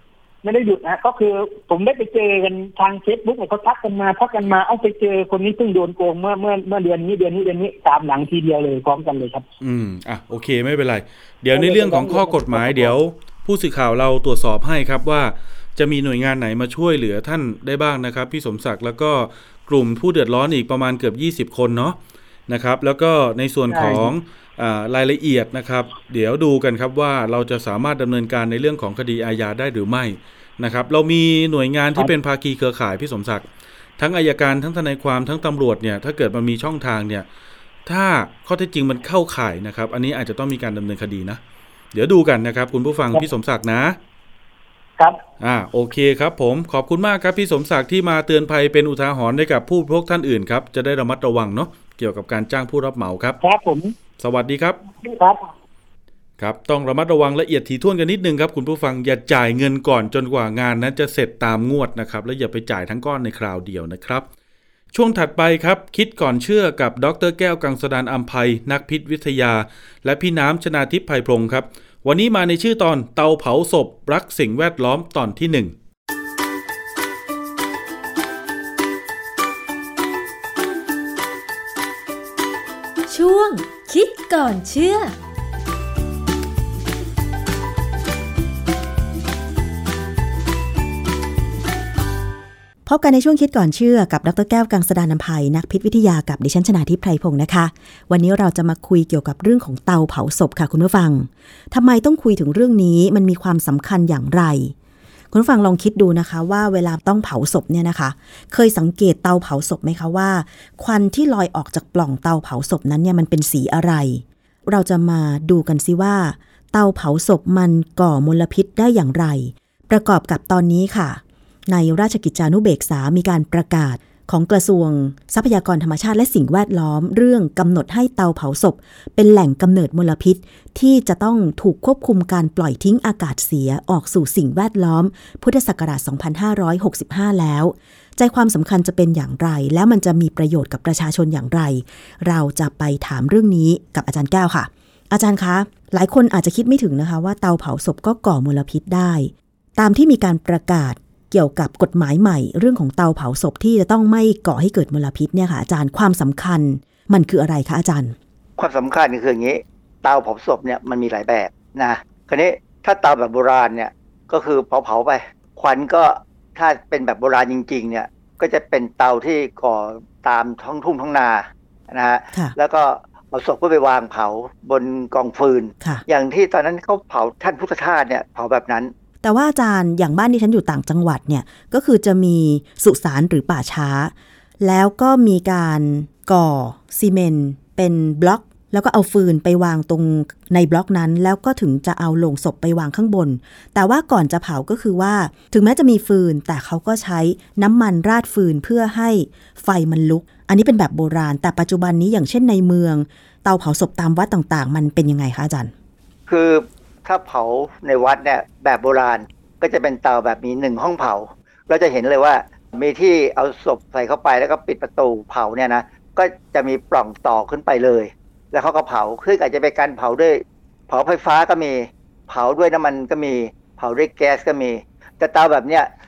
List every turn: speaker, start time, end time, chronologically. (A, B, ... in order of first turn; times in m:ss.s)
0:00.4-0:09.5 A
0:09.6-0:33.5 B
0:11.5-0:13.0 A
0:23.7-0:24.1 A
0:34.0-0:37.3 B
0:37.9-0:41.4 B
0:41.9-0:44.0 B
0:45.4-0:53.4 B
0:53.4-0:54.0 A
0:54.2-0:54.8 B
0:55.0-0:55.5 A
0:56.4-1:04.3 B
1:04.9-1:15.8 B
1:23.1-1:25.1 C
1:32.9-1:44.7 D
1:45.3-2:38.2 D
2:38.6-2:58.9 E
2:59.2-3:25.7 D
3:26.3-3:45.9 E